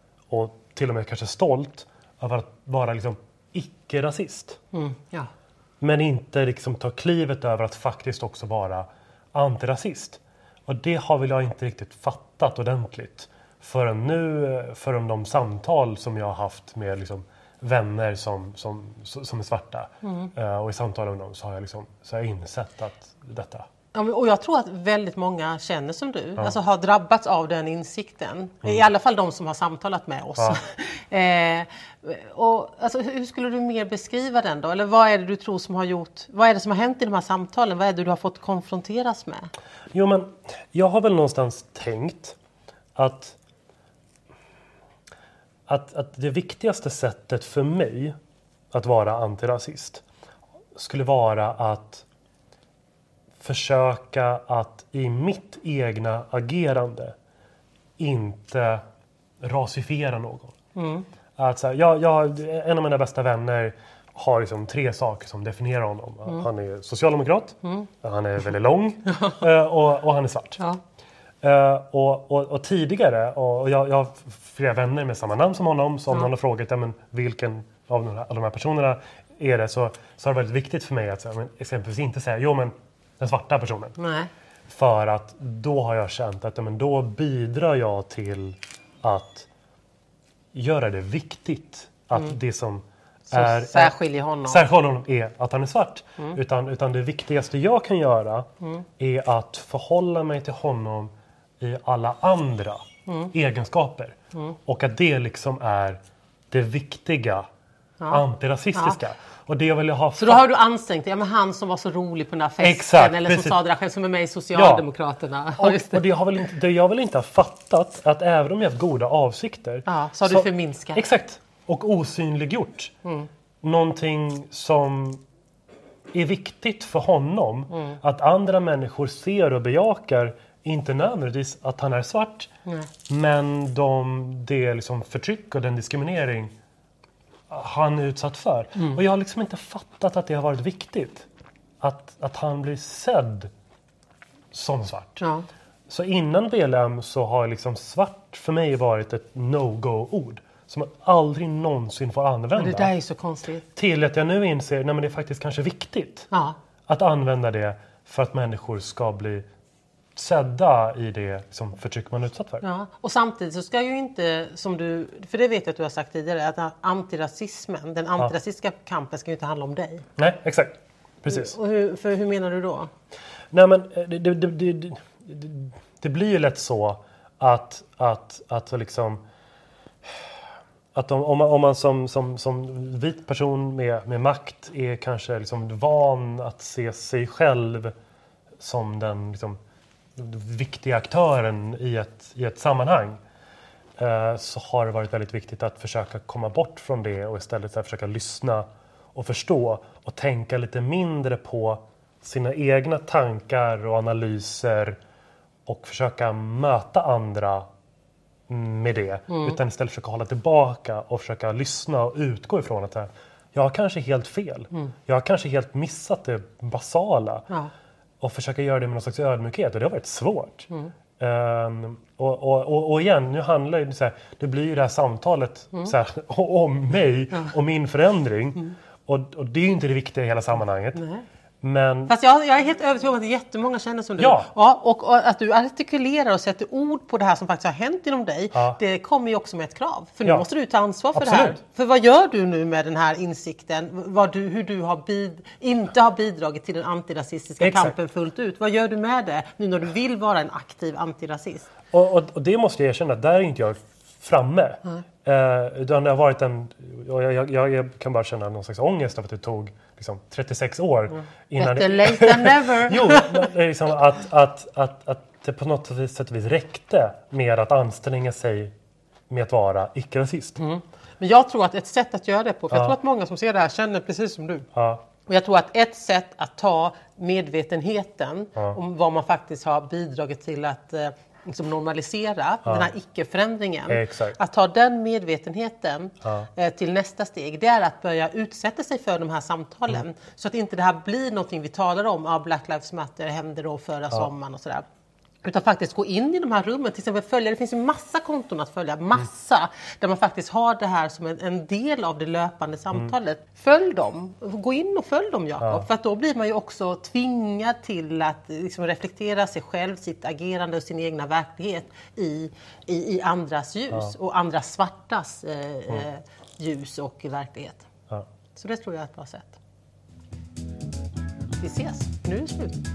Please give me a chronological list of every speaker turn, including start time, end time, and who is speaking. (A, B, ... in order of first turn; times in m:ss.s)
0:00.3-0:04.6 A
0:04.7-0:05.3 B
0:05.8-0:23.6 A
0:20.0-0:20.3 B
0:23.9-0:39.5 B
0:39.9-0:42.4 A
0:43.0-0:43.4 A
0:45.7-0:48.2 A
0:48.7-0:50.0 A
0:50.8-0:52.1 A
0:53.4-0:57.1 A
0:58.0-0:58.8 A
0:59.4-1:00.6 A
1:00.8-1:01.1 B
1:01.4-1:10.6 A
1:09.1-1:09.4 B
1:11.4-1:24.0 A
1:24.0-1:24.3 B
1:24.7-1:29.5 A
1:30.5-1:33.9 A
1:33.3-1:34.6 B
1:34.5-1:38.5 A
1:39.0-1:46.0 A
1:46.5-1:47.4 A
1:48.1-1:50.4 A
1:50.2-1:56.0 B
1:52.6-1:53.6 A
1:54.5-1:54.8 A
1:55.6-2:02.9 A
1:59.9-2:01.0 B
2:03.6-2:05.2 A
2:06.1-2:12.5 A
2:13.1-2:16.5 A
2:17.5-2:21.3 A
2:21.8-2:23.5 A
2:24.5-2:25.2 A
2:25.2-2:25.5 B
2:25.9-2:32.9 A
2:32.6-2:33.6 B
2:33.8-2:36.3 A
2:36.3-2:36.6 B
2:36.9-2:39.4 A
2:40.2-2:42.6 A
2:42.6-2:50.1 B
2:50.2-2:51.5 A
2:51.3-2:52.9 B
2:53.5-2:59.2 A
3:01.0-3:07.9 A
3:08.6-3:09.6 A
3:10.2-3:13.2 A
3:14.0-3:25.0 A
3:25.7-3:27.7 A
3:28.5-3:37.5 A
3:29.3-3:29.6 B
3:38.2-3:51.0 A
3:51.0-3:51.2 B
3:51.6-3:52.1 A
3:52.1-4:11.7 B
3:54.2-3:54.5 A
3:58.5-3:58.8 A
4:01.2-4:01.6 A
4:07.6-4:07.9 A
4:11.9-4:28.7 A
4:21.1-4:23.4 B
4:29.3-4:30.6 A
4:30.6-4:34.7 B
4:32.7-4:33.0 A
4:34.8-4:35.0 A
4:35.2-4:54.8 B
4:42.6-4:42.9 A
4:43.9-4:44.4 A
4:46.2-4:46.5 A
4:55.4-5:17.9 B
5:05.6-5:05.9 A
5:18.5-5:19.6 B
5:21.6-5:22.8 B